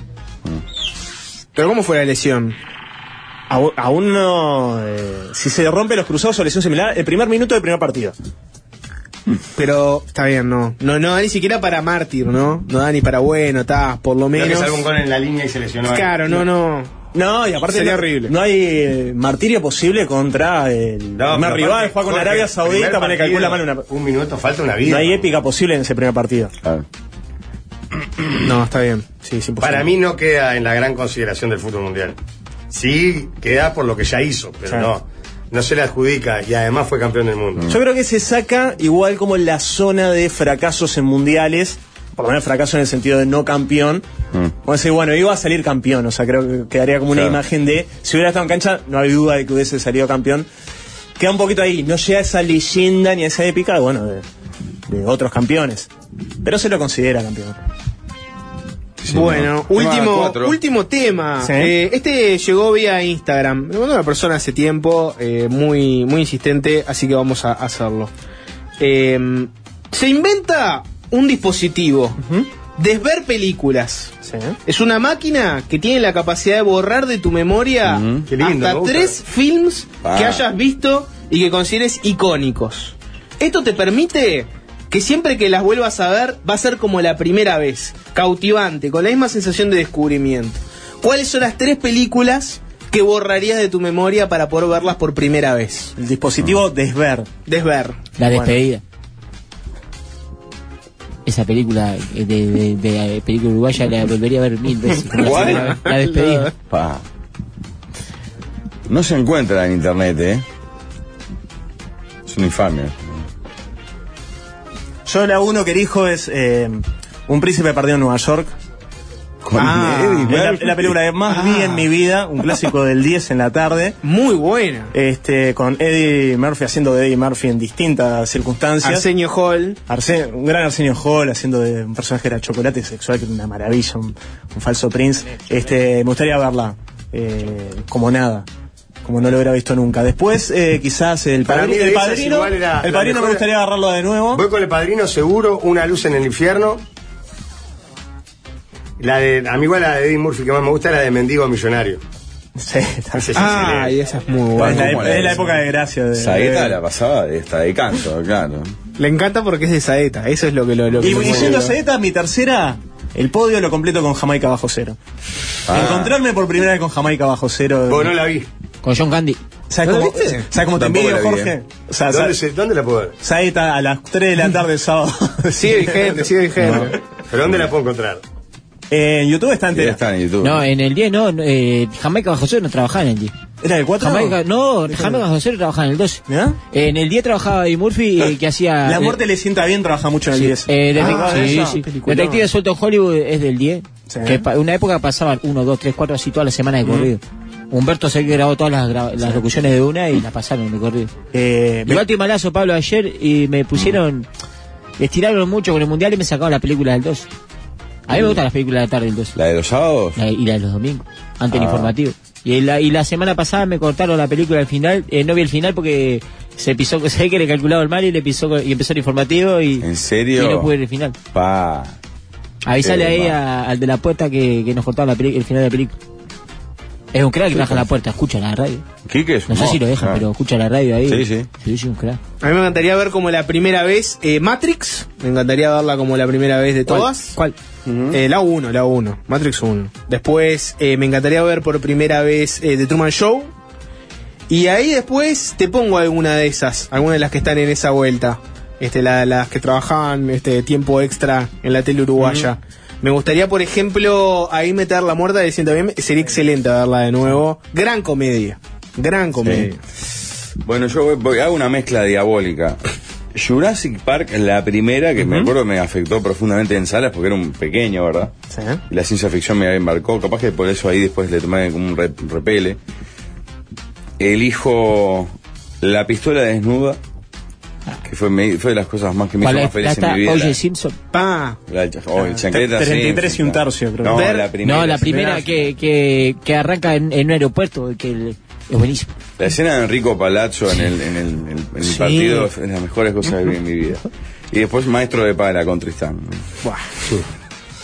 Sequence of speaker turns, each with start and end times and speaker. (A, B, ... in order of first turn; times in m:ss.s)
0:01.5-0:02.6 A
0:03.5-0:08.1 B
0:09.6-0:14.8 A
0:14.3-0:16.2 C
0:15.8-0:16.9 A
0:17.1-0:23.8 B
0:17.7-0:18.3 A
0:21.2-0:25.3 C
0:24.8-0:26.5 B
0:28.4-0:29.0 A
0:29.2-0:29.9 B
0:29.6-0:32.2 C
0:32.7-0:37.7 C
0:37.7-0:44.0 B
0:44.6-0:50.5 B
0:51.2-0:54.2 B
0:54.9-0:55.9 B
0:56.4-0:57.6 B
0:59.0-1:00.6 D
0:59.1-1:08.1 A
1:01.4-1:01.7 B
1:08.8-1:12.2 A
1:12.2-1:12.5 B
1:12.8-1:14.1 A
1:14.2-1:14.6 B
1:14.6-1:35.9 A
1:17.8-1:18.3 D
1:18.3-1:19.2 C
1:20.0-1:20.4 D
1:36.0-1:37.3 B
1:37.5-1:38.0 A
1:38.2-1:38.8 E
1:38.3-1:38.6 B
1:41.2-1:46.5 E
1:45.1-1:45.7 D
1:45.4-1:46.5 A
1:46.7-1:47.0 D
1:48.9-1:50.4 D
1:52.3-1:53.2 D
1:55.0-1:58.5 B
1:59.4-2:00.9 D
1:59.5-2:00.4 A
1:59.7-2:04.0 B
2:01.3-2:01.9 A
2:04.0-2:04.9 A
2:04.9-2:09.1 B
2:08.8-2:09.8 A
2:09.9-2:18.5 B
2:19.0-2:24.4 B
2:21.4-2:23.4 C
2:24.3-2:26.8 C
2:29.0-2:32.0 C
2:32.6-2:33.5 B
2:33.2-2:33.9 C
2:33.3-2:35.1 A
2:34.6-2:35.5 D
2:34.6-2:36.8 B
2:36.1-2:38.7 D
2:39.0-2:41.8 A
2:41.0-2:45.0 B
2:45.7-2:46.2 D
2:45.7-2:48.1 B
2:47.9-2:48.5 C
2:48.8-2:49.4 E
2:49.7-2:52.4 B
2:49.8-2:50.5 A
2:50.7-2:51.5 D
2:52.1-2:53.2 C
2:53.2-2:56.9 B
2:55.5-2:57.0 A
2:57.3-2:58.2 C
2:58.9-3:00.0 B
2:59.7-3:00.6 D
3:00.4-3:03.3 E
3:03.6-3:05.2 B
3:04.0-3:09.2 E
3:06.3-3:06.6 B
3:08.8-3:11.9 B
3:10.3-3:21.1 E
3:11.0-3:12.4 A
3:14.1-3:14.4 B
3:21.3-3:22.0 B
3:21.8-3:24.2 E
3:25.0-3:27.2 E
3:28.1-3:29.3 E
3:28.1-3:28.4 D
3:29.3-3:30.2 D
3:30.2-3:41.2 E
3:31.5-3:31.9 D
3:39.8-3:40.7 D
3:41.3-3:41.9 D
3:42.7-3:45.9 E
3:42.8-3:43.4 D
3:47.1-3:48.8 E
3:49.0-3:50.2 D
3:49.5-3:52.2 E
3:51.1-3:51.5 D
3:52.4-3:57.4 A
3:56.9-3:57.5 E
3:58.1-4:03.5 A
4:04.5-4:19.8 A
4:19.4-4:19.7 D
4:20.6-4:22.8 D
4:23.3-4:28.3 D
4:25.2-4:25.5 B
4:28.5-4:28.8 B
4:28.9-4:32.8 D
4:34.2-4:35.3 D
4:35.8-4:37.0 D
4:38.0-4:40.6 D
4:39.4-4:41.0 E
4:41.1-4:41.6 A
4:41.7-4:45.6 D
4:42.2-4:44.3 B
4:44.1-4:44.5 A
4:44.6-4:49.1 E
4:49.4-4:56.4 D
4:51.8-4:52.5 A